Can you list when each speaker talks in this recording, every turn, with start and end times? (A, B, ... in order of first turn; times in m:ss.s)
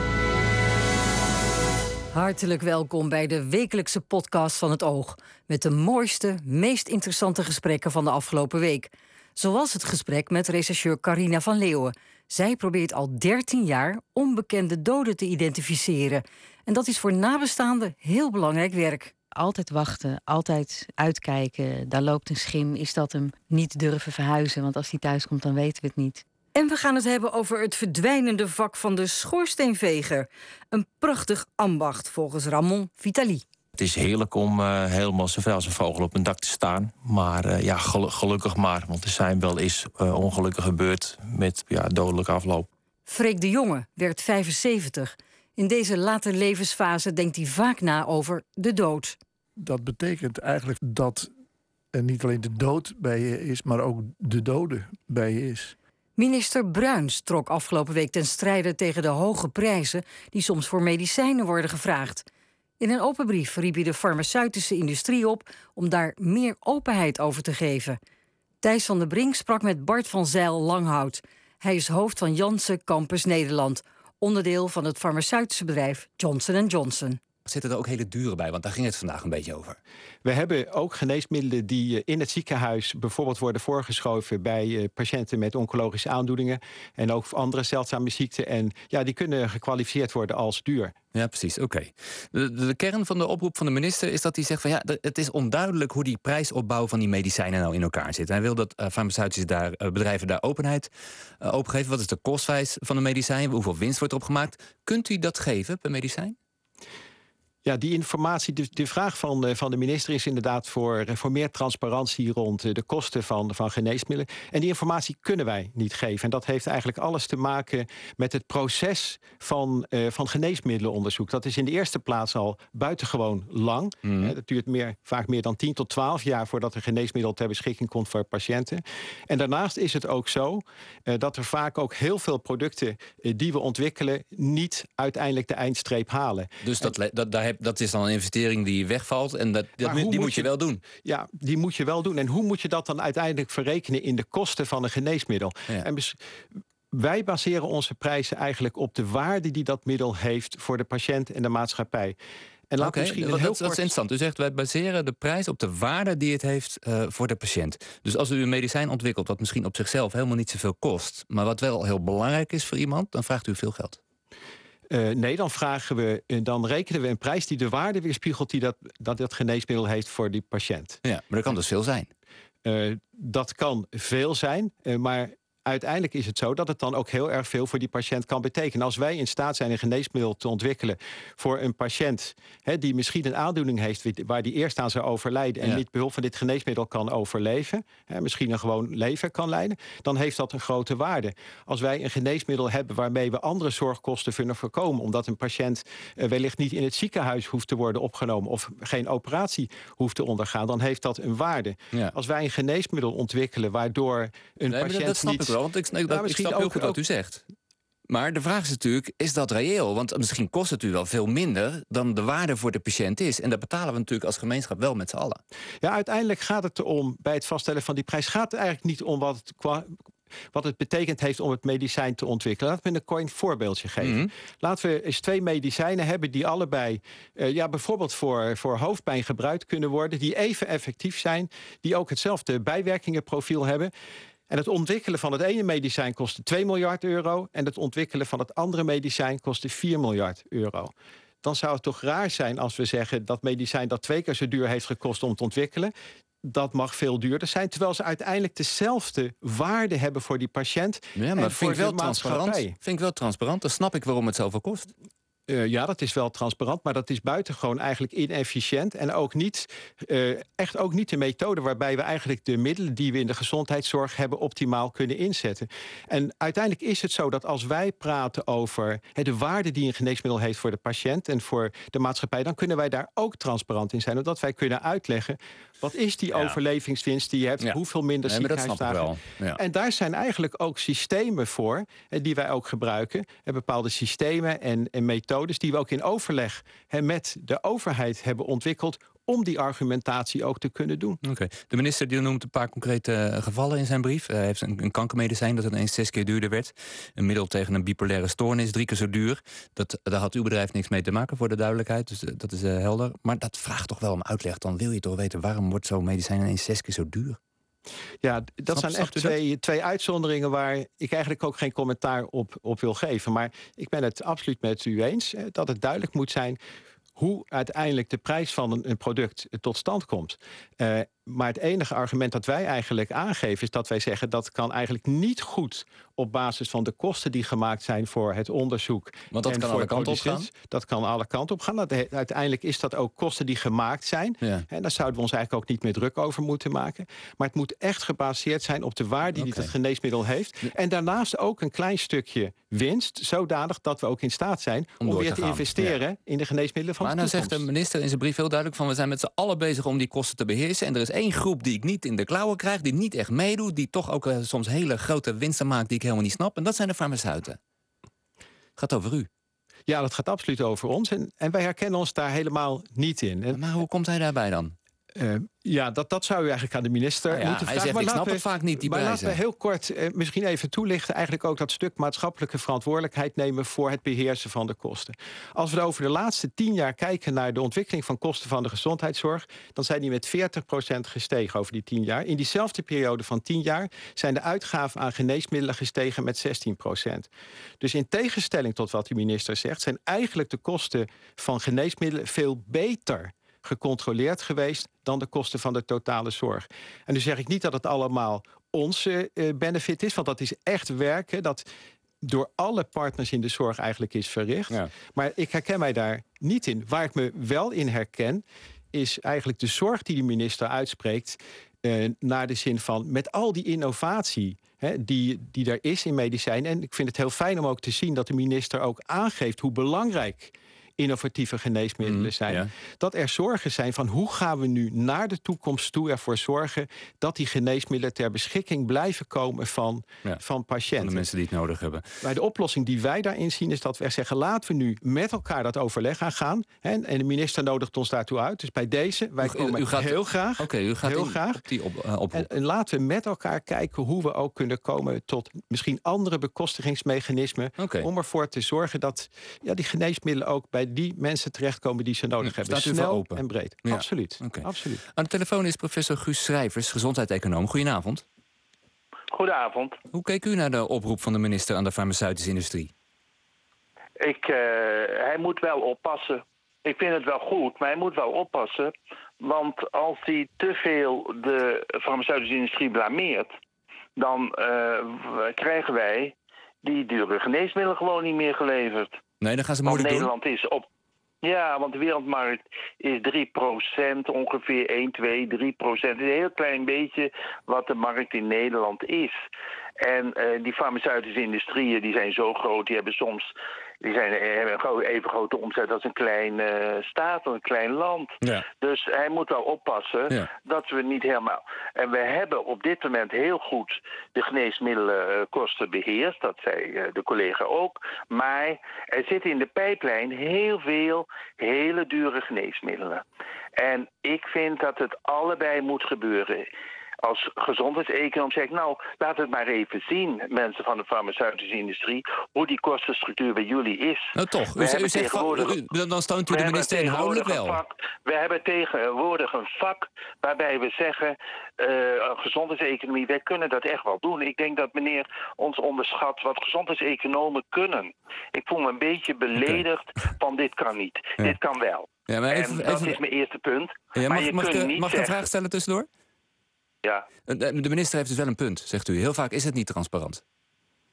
0:02.1-0:19.1 A
0:19.4-0:26.2 B
0:26.5-0:33.4 A
0:33.8-0:42.7 C
0:43.0-0:49.2 A
0:49.6-0:51.3 D
0:51.9-0:55.7 D
0:56.2-1:02.2 A
1:02.8-1:08.0 A
1:08.6-1:17.2 A
1:17.4-1:19.8 E
1:20.2-1:30.9 F
1:31.1-1:40.9 E
1:41.4-1:46.4 E
1:47.6-2:16.9 F
2:04.0-2:04.3 E
2:16.6-2:20.8 E
2:19.8-2:26.2 F
2:26.9-2:32.2 F
2:32.7-2:33.9 F
2:32.8-2:44.0 E
2:44.9-2:51.0 F
2:51.0-2:52.1 E
2:52.6-3:27.0 F
3:24.7-3:27.4 E
3:28.1-3:35.4 E
3:35.8-3:39.9 F
3:40.5-3:53.9 F
3:44.0-3:44.3 E
3:54.5-4:05.9 F
4:06.4-4:12.7 F
4:11.2-4:14.9 E
4:15.5-4:51.2 F
4:36.3-4:36.6 E
4:37.6-4:39.6 E
4:51.2-5:07.4 E
5:08.2-5:16.6 F
5:08.7-5:09.4 E
5:17.2-5:47.6 F
5:29.3-5:30.5 E
5:34.4-5:34.7 E
5:39.3-5:39.7 E
5:45.0-5:46.0 E
5:47.0-5:57.6 E
5:58.8-5:59.3 E
5:59.9-6:03.6 F
6:03.5-6:04.7 E
6:05.2-6:27.3 F
6:07.3-6:09.4 E
6:27.8-6:41.6 F
6:42.2-7:11.3 F
7:02.0-7:02.7 E
7:11.0-7:12.2 E
7:12.2-7:21.6 F
7:19.4-7:22.5 E
7:22.3-7:35.0 F
7:27.8-7:28.1 E
7:32.4-7:38.2 E
7:39.3-7:40.0 G
7:40.1-7:42.9 E
7:44.2-7:53.5 G
7:54.2-7:59.2 G
7:59.4-8:00.3 E
7:59.8-8:00.8 G
8:01.4-8:09.4 G
8:10.0-8:13.5 G
8:14.0-8:33.2 G
8:33.8-8:36.7 G
8:37.2-8:45.8 G
8:44.4-8:47.8 E
8:46.5-9:05.5 G
8:59.6-8:59.8 E
9:02.3-9:03.2 E
9:04.1-9:06.1 E
9:07.5-9:10.4 E